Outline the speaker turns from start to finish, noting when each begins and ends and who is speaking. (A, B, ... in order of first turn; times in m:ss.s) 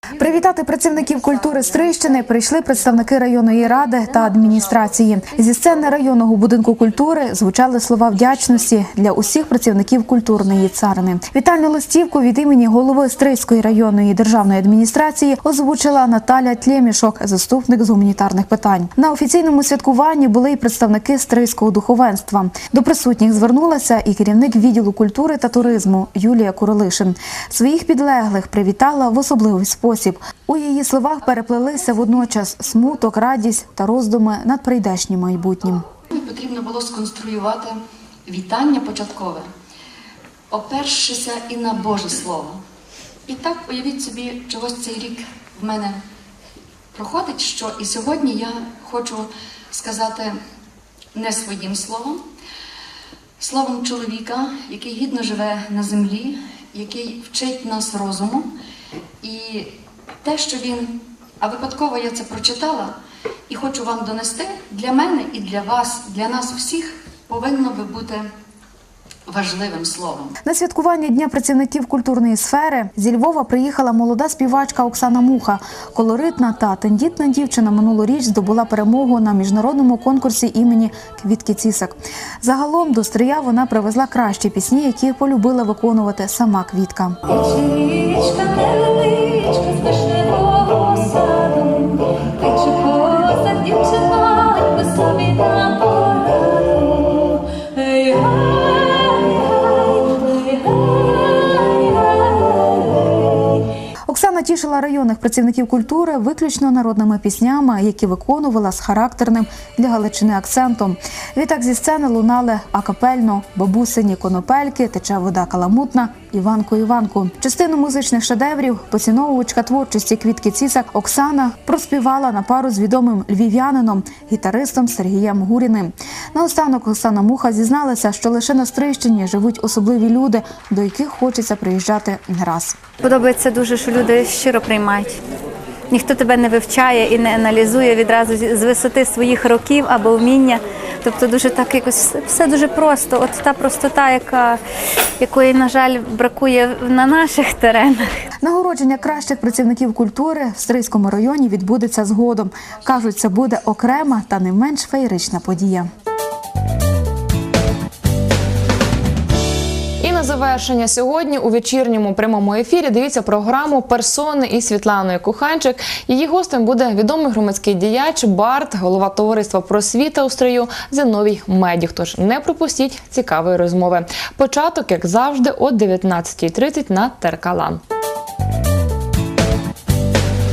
0:00.2-0:35.8 A
0:36.1-0:39.5 B
0:40.5-0:42.6 B
0:43.2-0:46.0 B
0:46.9-0:50.4 B
0:51.1-0:52.2 B
0:53.4-0:58.5 B
0:59.2-1:03.0 B
1:03.5-1:08.3 B
1:09.3-1:10.4 B
1:10.4-1:27.2 A
1:27.3-1:43.7 C
1:44.1-2:12.8 A
2:13.0-2:15.2 C
2:15.9-2:24.6 C
2:25.2-2:28.2 C
2:28.4-2:35.9 A
2:40.0-2:57.8 D